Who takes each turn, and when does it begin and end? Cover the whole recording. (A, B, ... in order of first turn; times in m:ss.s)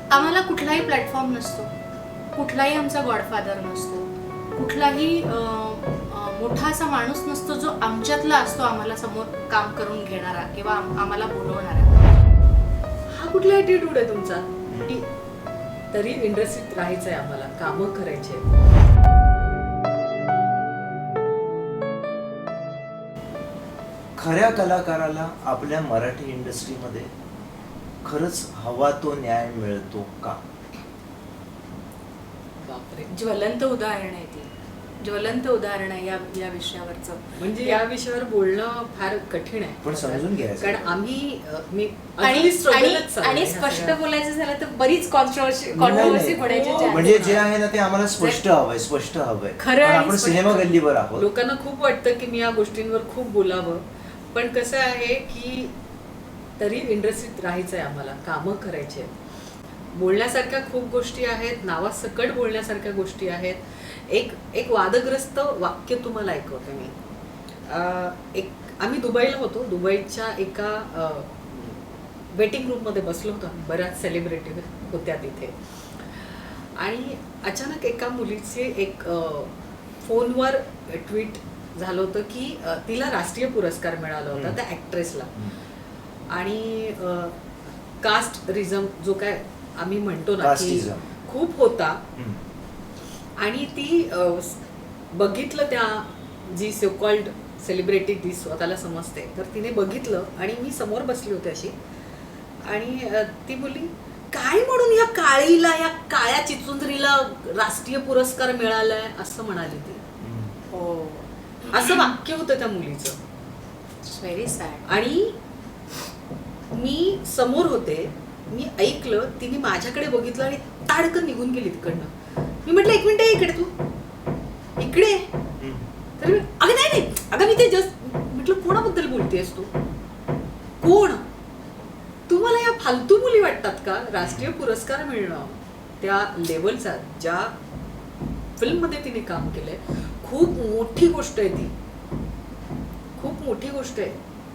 0:00.1-0:01.7 A
0:02.4-0:12.2 A
0:13.1-0:15.1 B
0:14.7-0:15.0 C
0:15.9-0:18.5 B
0:24.2-0:27.1 C
0:28.0-0:30.4 C
0:32.6-0:33.1 B
0:33.1-0:37.8 A
0:37.4-0:44.0 B
0:39.8-0:41.0 C
0:42.2-0:47.5 A
0:45.7-0:51.3 C
0:45.9-0:47.4 B
0:48.2-0:48.4 A
0:49.6-0:50.8 A
0:51.2-0:53.8 B
0:54.3-0:55.7 B
0:56.6-0:59.1 B
0:59.9-1:06.9 B
1:07.7-1:11.8 B
1:12.3-1:15.6 B
1:16.3-1:25.3 B
1:24.3-1:24.6 C
1:26.3-1:27.4 B
1:28.0-1:32.0 B
1:30.4-1:31.1 C
1:32.2-1:32.4 C
1:33.4-1:34.6 B
1:35.1-1:41.7 B
1:42.7-1:50.0 B
1:50.2-1:50.6 C
1:50.7-1:52.1 A
1:51.7-1:53.2 B
1:54.0-1:55.0 A
1:54.9-1:55.4 B
1:56.7-2:02.1 B
2:02.7-2:03.7 B
2:04.8-2:05.3 B
2:05.6-2:05.9 C
2:06.2-2:09.7 B
2:10.8-2:11.2 B
2:12.3-2:17.5 B
2:14.2-2:14.5 C
2:18.6-2:21.7 B
2:23.2-2:24.2 B